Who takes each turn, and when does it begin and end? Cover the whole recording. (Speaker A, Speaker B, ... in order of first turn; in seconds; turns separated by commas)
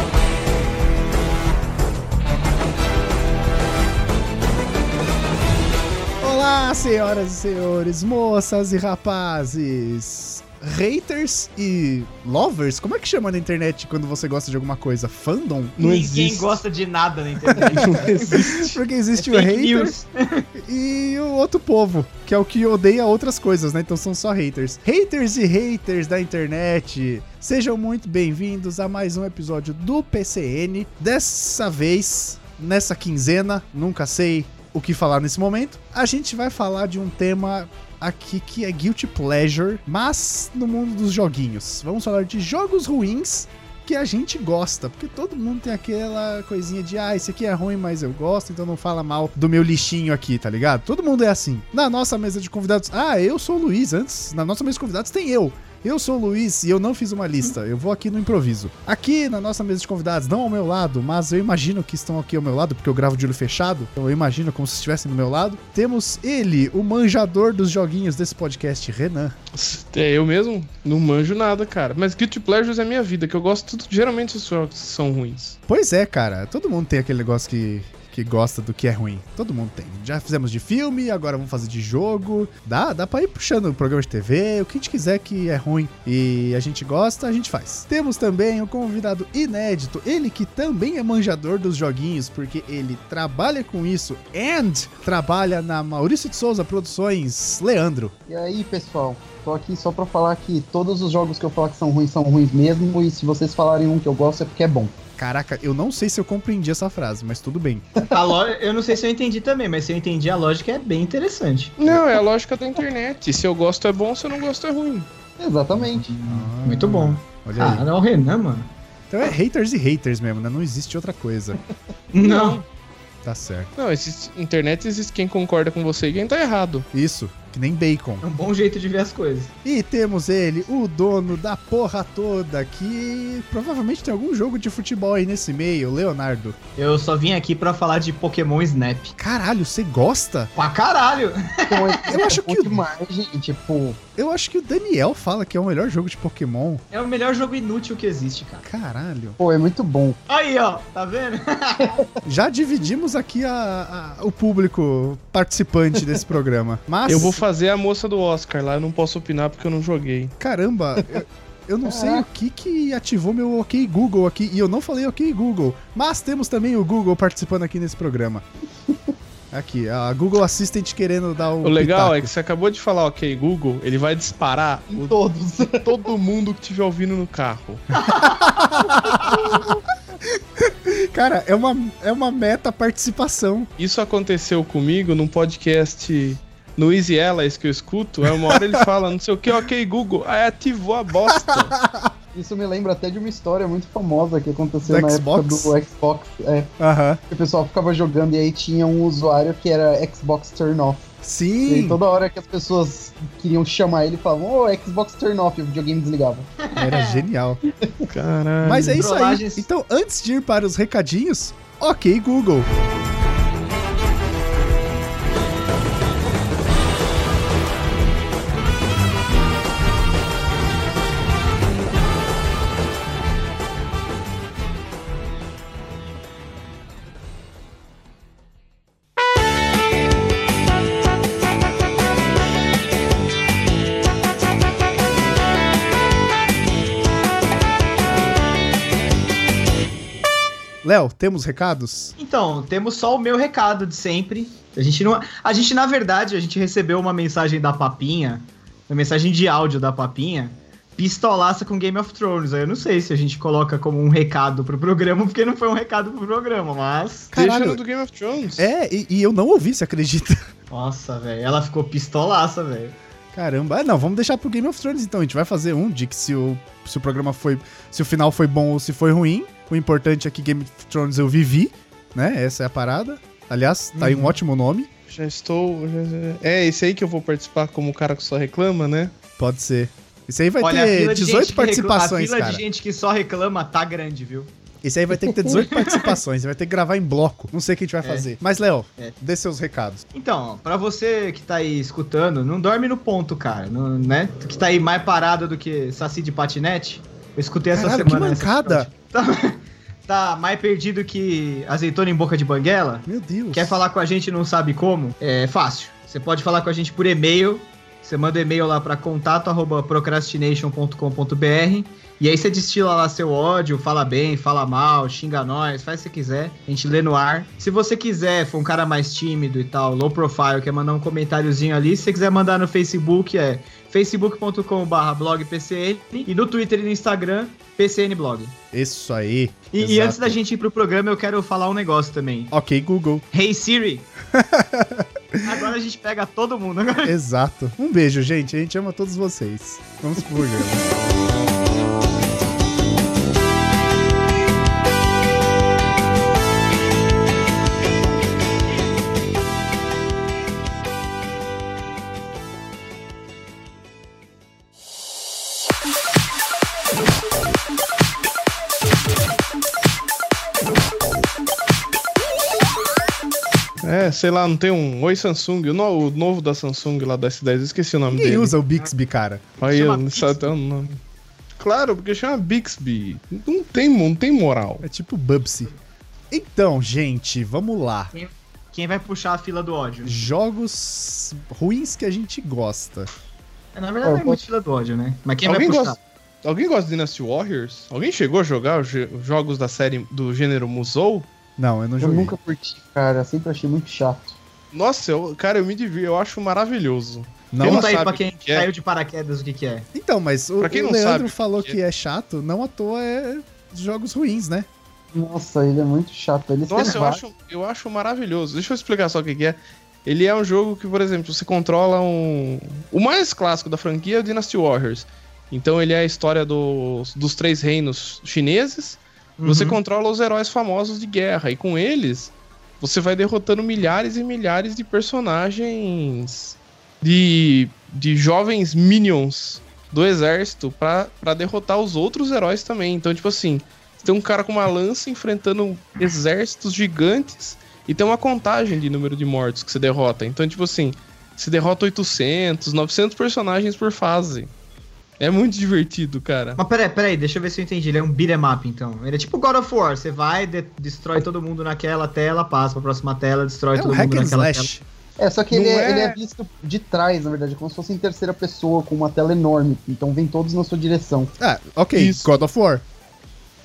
Speaker A: 6.2-15.8, Speaker B: 15.8-16.6, Speaker C: 15.8-18.6, Speaker B: 17.5-18.8, Speaker A: 18.3-19.9, Speaker C: 19.1-20.5, Speaker A: 20.5-69.3, Speaker B: 69.5-75.6, Speaker A: 75.7-98.1, Speaker D: 98.3-104.9, Speaker A: 105.2-107.8, Speaker C: 108.1-111.8, Speaker B: 111.8-115.1, Speaker D: 115.4-116.2, Speaker A: 116.2-117.8, Speaker C: 116.5-118.7, Speaker A: 119.1-121.6, Speaker C: 122.1-122.6, Speaker B: 122.2-122.6, Speaker A: 123.2-123.7, Speaker B: 123.8-126.8, Speaker A: 126.9-128.2, Speaker C: 128.2-129.5, Speaker A: 129.6-136.6, Speaker C: 136.8-139.2, Speaker A: 139.2-140.5, Speaker C: 140.5-142.1, Speaker D: 141.7-144.0, Speaker A: 142.1-142.8, Speaker A: 144.2-146.8, Speaker C: 146.9-148.6, Speaker A: 148.6-149.4, Speaker D: 149.4-150.2, Speaker C: 150.3-152.0, Speaker A: 152.2-157.4, Speaker B: 157.1-160.3, Speaker A: 160.4-168.4, Speaker D: 161.0-161.2, Speaker D: 161.8-162.2, Speaker A: 169.5-172.3, Speaker B: 171.6-177.9, Speaker D: 174.9-175.9, Speaker C: 177.9-179.4, Speaker A: 178.4-179.7, Speaker A: 180.2-183.7, Speaker B: 183.8-191.8, Speaker A: 191.3-192.1, Speaker D: 192.3-196.7, Speaker A: 194.8-195.7, Speaker A: 196.8-197.2, Speaker D: 197.3-201.1, Speaker A: 201.2-202.0, Speaker D: 201.7-206.5, Speaker C: 206.6-207.2, Speaker A: 206.7-207.6, Speaker D: 207.8-208.1, Speaker B: 208.0-209.0, Speaker A: 208.6-212.7, Speaker C: 209.0-209.7, Speaker A: 240.8-242.1, Speaker C: 242.2-257.3, Speaker A: 257.3-257.8, Speaker B: 257.3-258.7, Speaker A: 258.6-260.4, Speaker C: 260.7-262.9, Speaker A: 263.3-274.9, Speaker C: 273.9-274.3, Speaker B: 275.1-279.1, Speaker A: 279.4-282.6, Speaker C: 280.6-284.5, Speaker A: 284.8-290.0, Speaker D: 285.2-285.6, Speaker C: 285.5-286.1, Speaker C: 288.0-288.3, Speaker C: 290.1-328.5, Speaker A: 297.7-298.9, Speaker A: 303.1-303.8, Speaker A: 328.7-330.4, Speaker C: 329.7-332.5, Speaker A: 332.5-333.2, Speaker C: 333.3-334.1, Speaker A: 334.3-335.5, Speaker C: 335.4-337.1, Speaker A: 337.0-340.9, Speaker B: 363.8-368.6, Speaker A: 368.1-369.5, Speaker C: 369.6-370.5, Speaker B: 369.6-371.0, Speaker B: 371.6-374.8, Speaker A: 374.8-375.7, Speaker A: 376.3-378.1, Speaker C: 378.1-380.1, Speaker A: 380.0-383.1, Speaker C: 383.7-386.0, Speaker D: 384.0-384.4, Speaker B: 385.4-391.3, Speaker A: 391.6-392.4, Speaker D: 392.0-394.4, Speaker B: 394.7-398.7, Speaker A: 397.5-397.9, Speaker C: 397.6-399.9, Speaker A: 399.9-404.7, Speaker B: 400.6-401.8, Speaker D: 405.1-407.2, Speaker B: 406.7-444.5, Speaker C: 419.4-419.8, Speaker B: 445.2-446.6, Speaker C: 446.6-454.7, Speaker A: 453.7-454.8, Speaker D: 455.2-461.3, Speaker B: 455.5-456.2, Speaker A: 461.4-462.8, Speaker B: 461.9-462.4